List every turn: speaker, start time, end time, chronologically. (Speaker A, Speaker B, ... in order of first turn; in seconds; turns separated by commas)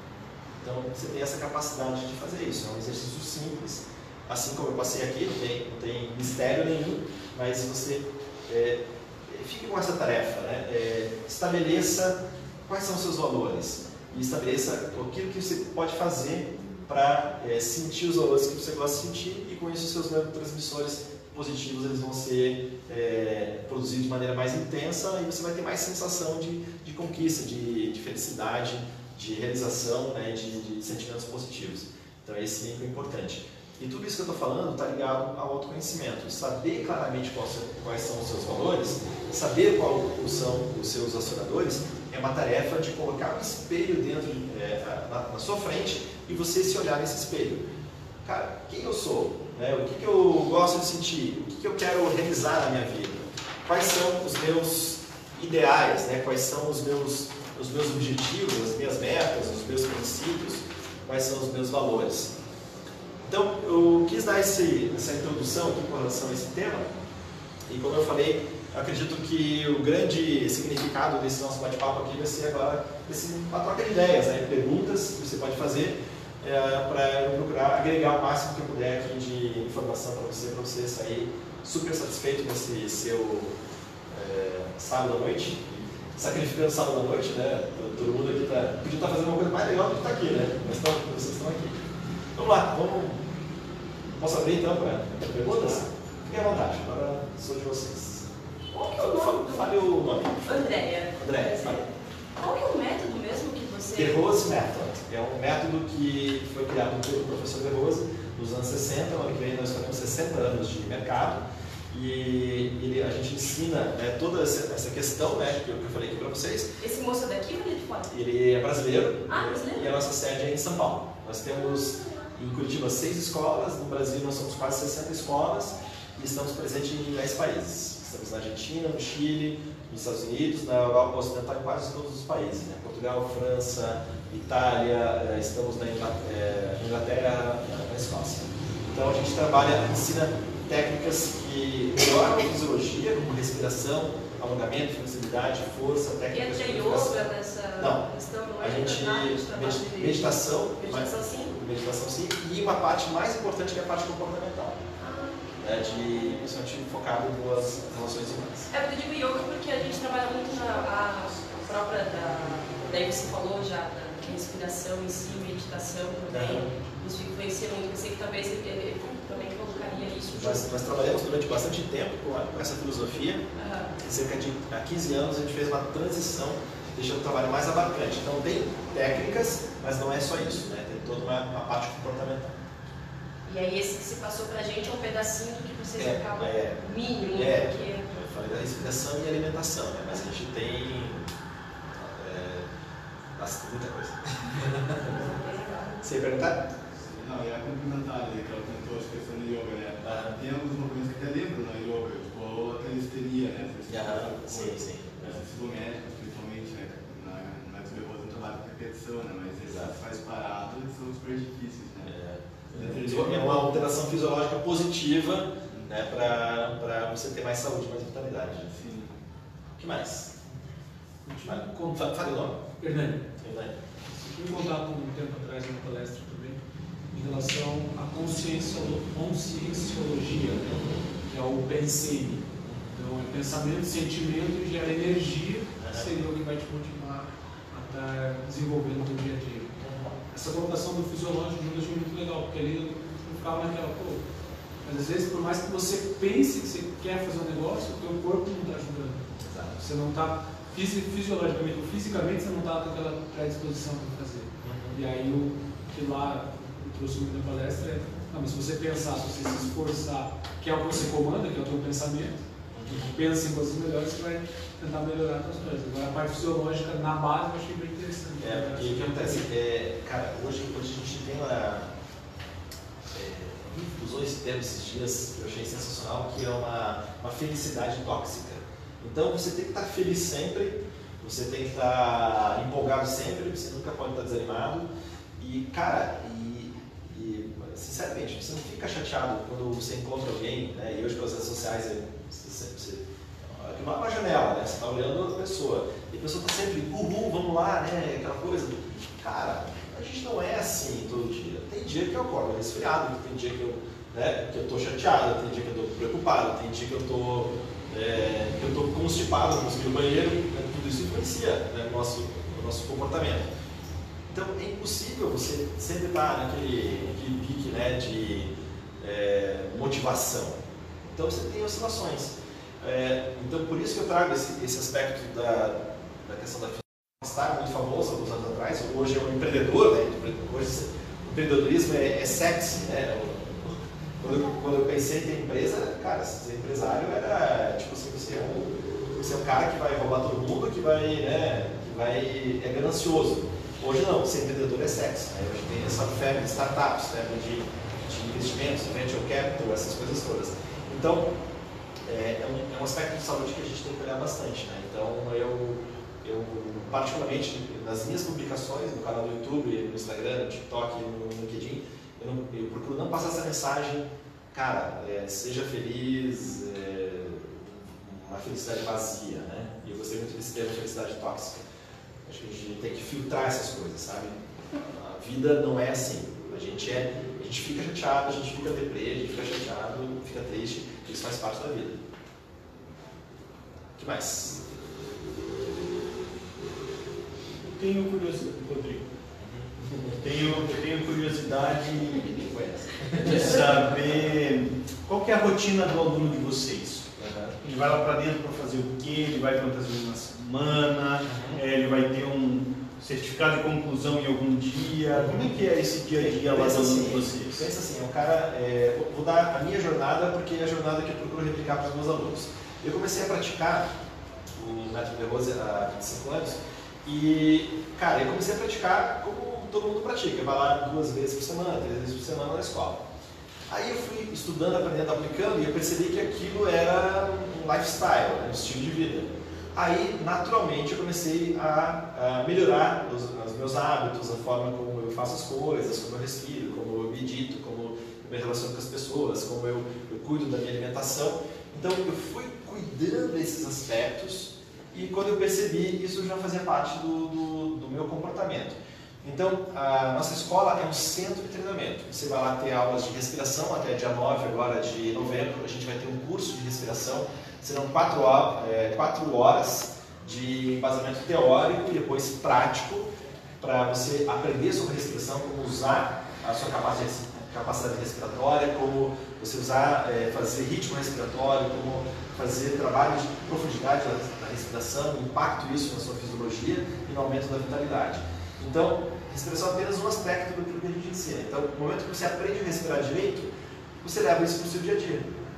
Speaker A: 0.6-47.6, Speaker A: 48.2-62.3, Speaker A: 63.2-66.9, Speaker A: 67.7-83.6, Speaker A: 84.1-91.8, Speaker A: 92.3-93.2, Speaker A: 94.2-98.3, Speaker B: 98.7-99.7, Speaker A: 98.9-101.9, Speaker B: 100.4-101.8, Speaker B: 102.4-104.2, Speaker A: 103.9-116.7, Speaker B: 116.8-118.1, Speaker A: 118.1-148.0, Speaker B: 119.3-119.9, Speaker B: 146.3-151.6, Speaker A: 148.6-154.8, Speaker B: 155.0-155.9, Speaker A: 155.6-158.7, Speaker B: 158.7-170.7, Speaker A: 166.3-166.7, Speaker A: 170.3-173.4, Speaker B: 173.5-173.9, Speaker A: 174.0-182.5, Speaker B: 183.4-188.1, Speaker A: 185.9-191.3, Speaker A: 191.9-192.7, Speaker A: 193.3-195.3, Speaker B: 195.1-196.0, Speaker A: 196.0-196.7, Speaker C: 196.9-212.2, Speaker A: 200.0-200.4, Speaker A: 203.9-205.4, Speaker A: 209.6-210.0, Speaker A: 212.1-218.7, Speaker C: 212.7-213.8, Speaker C: 218.6-219.2, Speaker A: 219.8-220.3, Speaker D: 221.2-223.2, Speaker A: 221.4-222.6, Speaker A: 223.4-223.7, Speaker D: 224.1-226.6, Speaker D: 227.1-239.7, Speaker A: 230.7-231.0, Speaker A: 235.8-236.1, Speaker A: 239.8-240.2, Speaker D: 240.3-244.2, Speaker D: 244.8-249.2, Speaker A: 249.4-249.8, Speaker D: 249.8-269.5, Speaker A: 254.6-255.0, Speaker A: 262.7-263.1, Speaker A: 268.4-271.9, Speaker A: 273.1-313.5, Speaker A: 314.3-351.3, Speaker A: 352.1-371.6, Speaker A: 372.3-382.0, Speaker A: 384.0-384.6, Speaker E: 387.6-389.1, Speaker A: 389.4-390.7, Speaker E: 390.2-392.3, Speaker A: 392.3-394.3, Speaker E: 393.1-397.1, Speaker A: 397.1-397.6, Speaker E: 397.6-407.7, Speaker A: 401.2-401.6, Speaker A: 405.1-405.5, Speaker A: 406.1-413.9, Speaker A: 414.5-423.0, Speaker A: 423.7-463.1, Speaker A: 463.6-483.5, Speaker A: 484.0-485.3